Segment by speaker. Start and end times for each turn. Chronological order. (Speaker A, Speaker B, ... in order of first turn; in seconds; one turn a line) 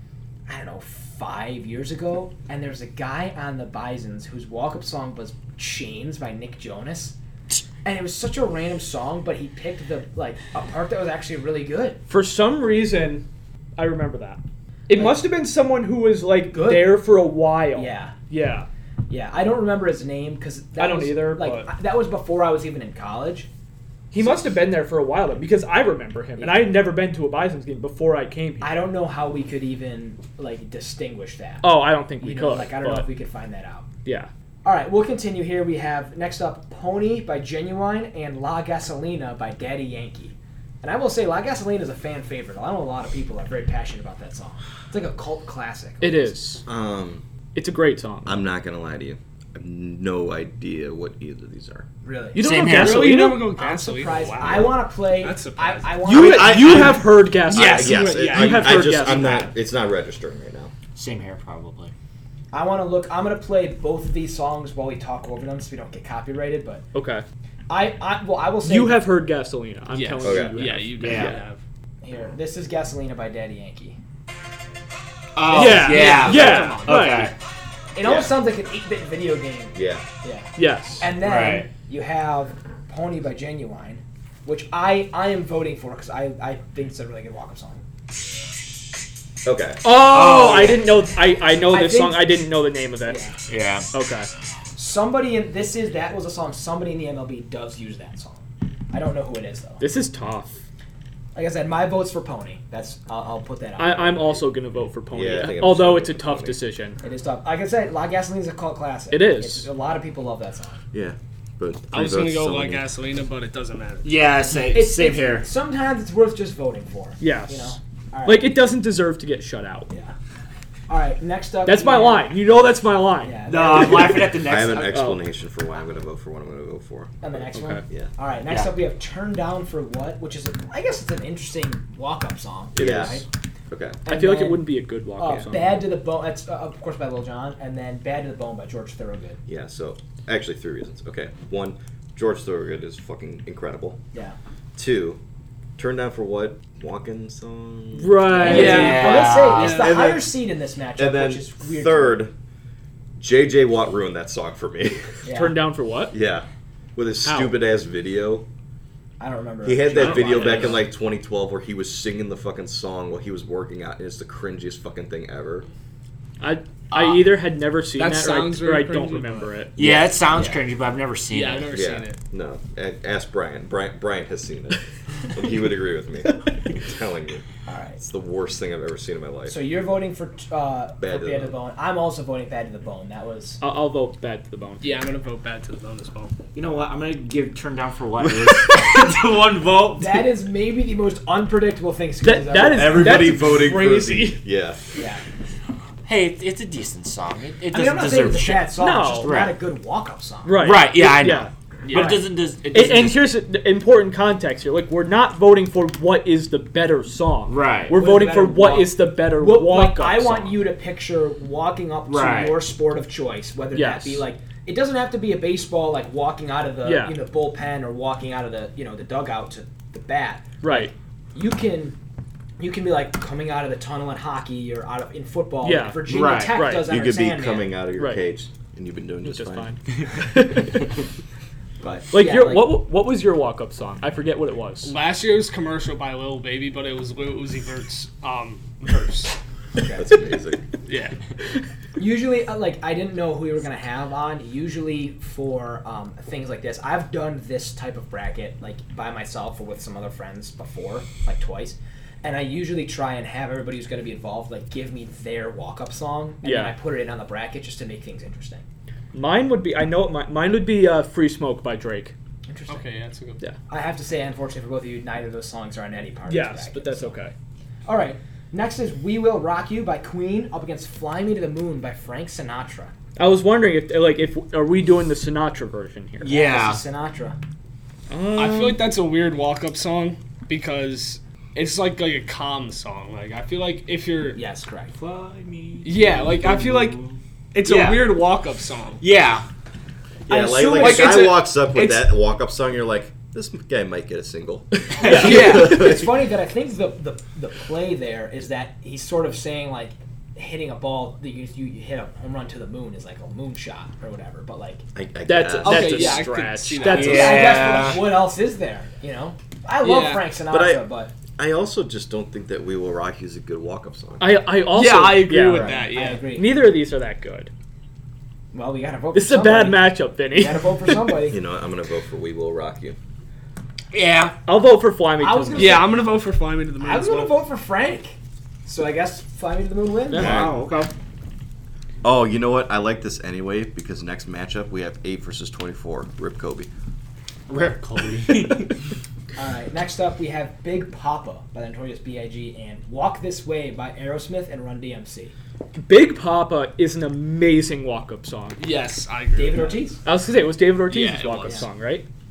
Speaker A: 0.5-7.1
Speaker A: 7.8-12.0
Speaker B: 12.1-13.2
Speaker B: 13.8-18.7
Speaker A: 14.9-15.2
Speaker A: 16.5-17.1
Speaker A: 17.7-18.1
Speaker A: 19.1-23.5
Speaker B: 20.8-21.7
Speaker B: 24.1-28.7
Speaker A: 24.2-24.5
Speaker A: 26.4-26.8
Speaker A: 28.6-33.9
Speaker B: 31.6-33.1
Speaker B: 34.0-34.3
Speaker A: 34.6-46.3
Speaker B: 46.0-46.6
Speaker C: 46.6-47.2
Speaker B: 47.5-48.4
Speaker C: 48.2-51.9
Speaker A: 52.0-52.4
Speaker B: 52.3-53.5
Speaker D: 52.4-53.3
Speaker E: 52.6-56.5
Speaker A: 53.5-57.0
Speaker C: 54.4-54.8
Speaker B: 56.0-59.5
Speaker C: 56.1-60.7
Speaker E: 57.5-59.4
Speaker A: 57.7-58.0
Speaker A: 58.6-59.5
Speaker D: 60.9-61.9
Speaker A: 62.5-66.8
Speaker B: 66.9-67.2
Speaker A: 67.7-69.0
Speaker B: 68.6-71.3
Speaker E: 69.9-71.6
Speaker C: 70.2-71.4
Speaker D: 71.0-71.4
Speaker A: 72.0-74.0
Speaker D: 75.3-77.3
Speaker A: 75.5-77.3
Speaker B: 75.5-77.3
Speaker A: 77.9-87.8
Speaker C: 78.0-78.3
Speaker C: 79.7-80.0
Speaker B: 80.6-81.1
Speaker D: 81.2-81.7
Speaker C: 89.4-89.9
Speaker B: 89.8-93.3
Speaker D: 89.9-90.9
Speaker A: 90.3-90.8
Speaker A: 91.7-92.4
Speaker A: 93.0-93.3
Speaker D: 93.5-93.9
Speaker B: 93.9-94.3
Speaker A: 94.8-99.8
Speaker B: 99.8-100.6
Speaker A: 101.3-104.4
Speaker B: 103.8-107.0
Speaker C: 105.1-106.6
Speaker A: 107.0-110.8
Speaker B: 109.1-109.7
Speaker C: 110.9-112.9
Speaker E: 111.9-114.2
Speaker D: 114.0-115.5
Speaker A: 114.7-118.6
Speaker B: 117.2-119.9
Speaker A: 119.9-120.1
Speaker A: 120.9-122.3
Speaker B: 121.6-123.4
Speaker A: 123.2-124.2
Speaker D: 123.5-125.0
Speaker C: 124.1-127.1
Speaker B: 124.9-125.2
Speaker A: 127.2-133.2
Speaker B: 127.5-127.8
Speaker D: 128.5-128.7
Speaker B: 132.7-133.2
Speaker C: 132.8-134.0
Speaker A: 134.0-139.4
Speaker B: 134.1-135.9
Speaker C: 139.5-144.0
Speaker C: 144.7-145.2
Speaker C: 145.8-148.8
Speaker B: 147.9-149.3
Speaker D: 148.3-149.9
Speaker A: 148.4-152.2
Speaker E: 148.5-150.1
Speaker C: 149.9-150.2
Speaker C: 151.0-152.3
Speaker C: 153.2-155.2
Speaker A: 155.2-155.6
Speaker B: 155.3-156.1
Speaker C: 156.1-158.4
Speaker B: 157.2-157.5
Speaker A: 159.2-160.8
Speaker C: 159.6-165.7
Speaker B: 160.0-160.8
Speaker B: 166.4-169.7
Speaker E: 166.9-167.2
Speaker E: 167.9-169.7
Speaker D: 169.8-171.7
Speaker C: 169.8-170.3
Speaker A: 170.3-170.6
Speaker E: 171.3-172.2
Speaker C: 171.7-177.4
Speaker A: 177.7-178.0
Speaker C: 178.0-179.5
Speaker A: 179.5-183.6
Speaker C: 181.0-181.5
Speaker B: 183.6-185.1
Speaker E: 184.8-186.3
Speaker D: 186.5-190.3
Speaker A: 189.9-193.2
Speaker B: 192.2-194.4
Speaker C: 192.6-194.8
Speaker A: 194.9-195.2
Speaker D: 196.0-199.6
Speaker A: 197.7-200.7
Speaker B: 198.8-199.3
Speaker B: 200.4-202.2
Speaker D: 200.6-203.3
Speaker A: 201.9-202.2
Speaker B: 202.7-210.6
Speaker D: 207.5-208.0
Speaker A: 207.9-222.0
Speaker D: 212.1-212.6
Speaker B: 213.7-214.2
Speaker B: 216.8-217.2
Speaker B: 220.6-220.9
Speaker A: 222.6-227.7
Speaker B: 225.6-226.9
Speaker D: 226.0-226.7
Speaker C: 226.8-229.7
Speaker B: 227.9-228.2
Speaker B: 229.2-230.9
Speaker A: 231.8-232.8
Speaker B: 232.1-234.9
Speaker E: 234.8-239.3
Speaker A: 239.8-240.1
Speaker C: 239.9-240.7
Speaker E: 240.9-241.2
Speaker A: 242.0-258.6
Speaker B: 256.4-256.7
Speaker B: 259.1-262.1
Speaker A: 262.5-262.8
Speaker E: 262.7-263.4
Speaker A: 263.7-267.2
Speaker B: 266.3-267.3
Speaker A: 267.9-272.9
Speaker B: 273.1-276.3
Speaker D: 276.2-276.8
Speaker A: 276.2-277.4
Speaker B: 278.1-278.8
Speaker E: 278.3-284.4
Speaker A: 284.3-284.9
Speaker D: 284.9-288.2
Speaker E: 285.8-289.0
Speaker D: 289.0-289.4
Speaker C: 290.3-296.2
Speaker A: 290.3-291.4
Speaker E: 290.7-292.1
Speaker B: 294.9-295.9
Speaker D: 295.0-295.7
Speaker A: 295.0-304.8
Speaker C: 304.9-306.3
Speaker B: 305.2-307.7
Speaker E: 305.6-307.9
Speaker D: 306.9-308.1
Speaker A: 306.9-311.1
Speaker E: 309.8-310.3
Speaker C: 310.5-310.8
Speaker C: 311.4-314.4
Speaker B: 314.2-317.5
Speaker E: 314.7-316.3
Speaker A: 315.4-316.7
Speaker A: 318.5-321.4
Speaker B: 319.1-321.1
Speaker C: 321.3-323.0
Speaker D: 323.9-324.4
Speaker B: 324.4-325.9
Speaker A: 325.2-326.0
Speaker E: 325.5-327.4
Speaker A: 326.8-330.4
Speaker B: 330.1-330.5
Speaker D: 330.1-330.9
Speaker C: 330.2-330.5
Speaker C: 332.0-336.7
Speaker D: 337.5-338.9
Speaker A: 339.4-345.3
Speaker B: 345.7-348.6
Speaker E: 348.6-349.9
Speaker A: 349.4-350.0
Speaker B: 350.0-352.1
Speaker E: 350.9-351.7